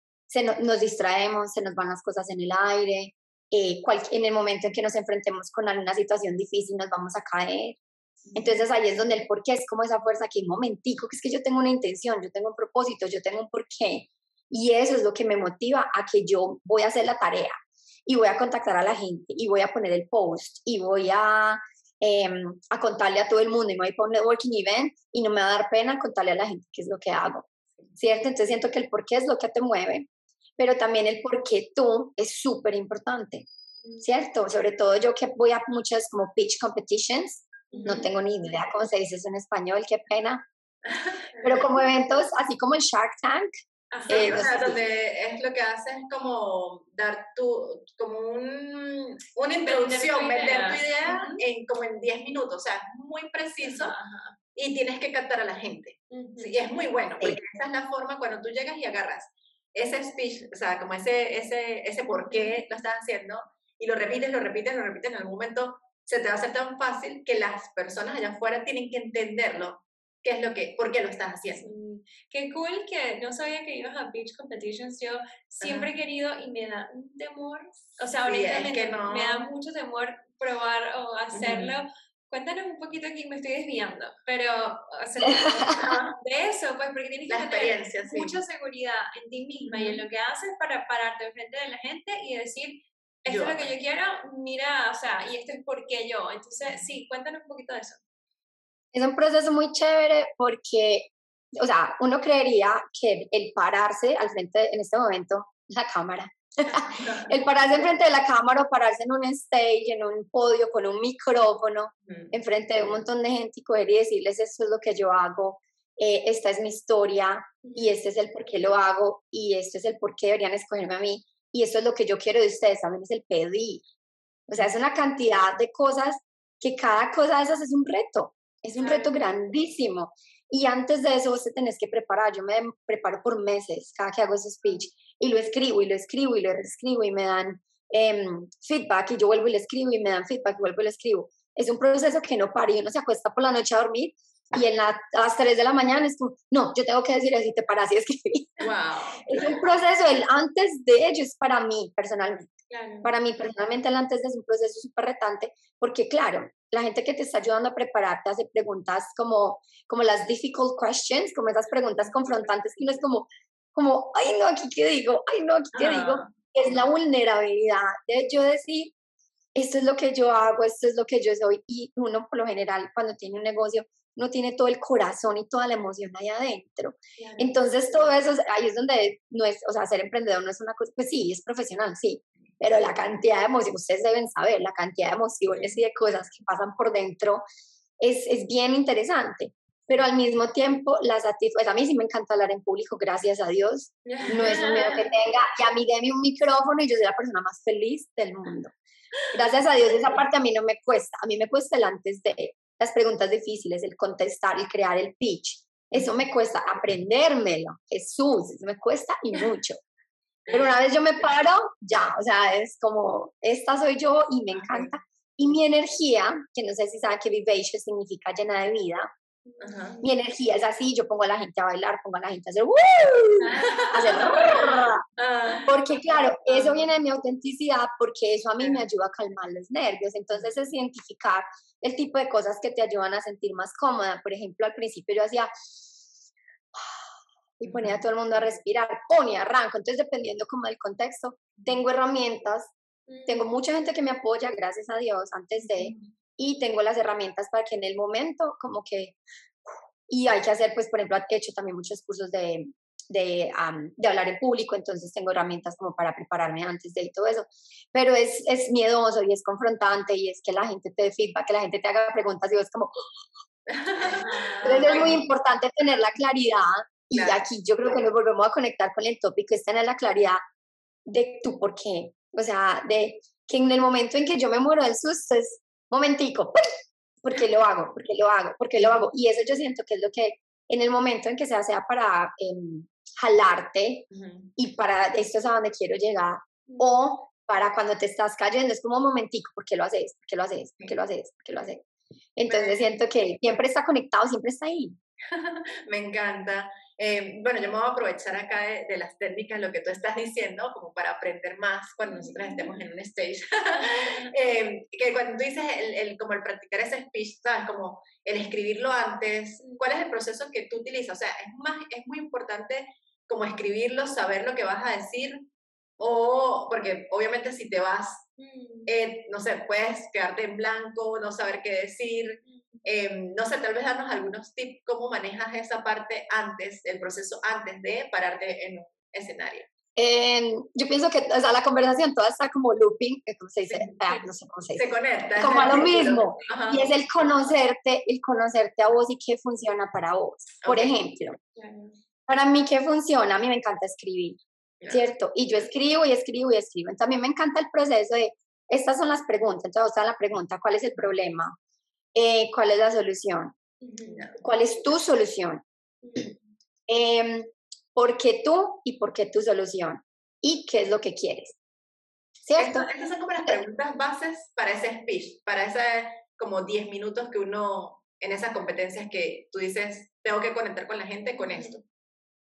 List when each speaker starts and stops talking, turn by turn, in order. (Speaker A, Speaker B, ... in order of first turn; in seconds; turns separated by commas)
Speaker A: 0.3-7.8, Speaker B: 8.2-8.6, Speaker A: 8.3-17.5, Speaker A: 18.1-30.1, Speaker A: 30.6-33.5, Speaker C: 33.8-34.1, Speaker A: 34.0-40.4, Speaker C: 37.7-38.1, Speaker B: 37.7-38.0, Speaker B: 40.9-41.6, Speaker C: 41.3-41.7, Speaker A: 41.4-43.5, Speaker C: 43.9-44.4, Speaker B: 44.1-53.9, Speaker A: 44.1-44.8, Speaker C: 49.6-51.4, Speaker C: 53.6-54.4, Speaker B: 54.5-71.7, Speaker C: 56.1-56.6, Speaker C: 62.2-62.6, Speaker C: 71.5-98.0, Speaker B: 75.6-75.9, Speaker B: 78.2-79.5, Speaker B: 81.3-81.8, Speaker A: 85.2-85.8, Speaker B: 85.7-86.1, Speaker B: 87.3-88.4, Speaker B: 89.7-90.0, Speaker B: 93.3-93.7, Speaker A: 98.9-123.8, Speaker B: 106.9-107.3, Speaker B: 112.1-112.3, Speaker C: 117.6-118.0, Speaker A: 124.5-148.6, Speaker C: 128.8-129.3, Speaker B: 148.6-149.6, Speaker A: 149.2-152.5, Speaker C: 152.7-153.1, Speaker A: 153.0-168.9, Speaker B: 165.7-166.3, Speaker A: 169.5-187.4, Speaker C: 177.2-177.9, Speaker A: 188.0-198.7, Speaker C: 194.1-195.1, Speaker A: 199.3-209.8, Speaker B: 210.5-210.7, Speaker A: 210.5-219.1, Speaker C: 219.4-220.1, Speaker B: 219.6-220.0, Speaker A: 220.0-225.0, Speaker B: 223.5-225.7, Speaker C: 223.8-224.4, Speaker A: 225.7-235.7, Speaker B: 228.6-228.8, Speaker A: 236.7-237.1, Speaker A: 237.6-242.7, Speaker B: 237.7-238.0, Speaker C: 243.1-243.5, Speaker A: 243.2-249.2, Speaker A: 250.1-263.2, Speaker B: 263.7-265.2, Speaker C: 264.0-265.1, Speaker A: 264.6-270.4, Speaker B: 267.1-267.4, Speaker A: 271.1-276.6, Speaker A: 277.2-291.8, Speaker B: 278.8-279.1, Speaker B: 284.1-284.5, Speaker C: 286.7-287.0, Speaker A: 292.4-295.0, Speaker B: 292.5-292.9, Speaker B: 295.3-315.4, Speaker C: 302.0-302.7, Speaker C: 303.8-304.3, Speaker C: 309.6-309.9, Speaker B: 316.0-318.3, Speaker C: 318.4-318.9, Speaker B: 318.9-329.7, Speaker C: 322.4-322.8, Speaker A: 329.9-341.4, Speaker B: 333.7-334.0, Speaker B: 334.7-336.8, Speaker C: 336.2-336.5, Speaker B: 340.6-340.9, Speaker C: 341.6-342.0, Speaker A: 342.3-344.4, Speaker B: 344.8-345.1, Speaker A: 344.9-351.6, Speaker A: 352.1-353.5, Speaker C: 353.8-354.4, Speaker B: 354.0-354.4, Speaker A: 354.4-355.6, Speaker C: 356.0-356.4, Speaker A: 356.9-361.6, Speaker A: 362.4-362.9, Speaker B: 362.6-371.8, Speaker C: 371.4-371.8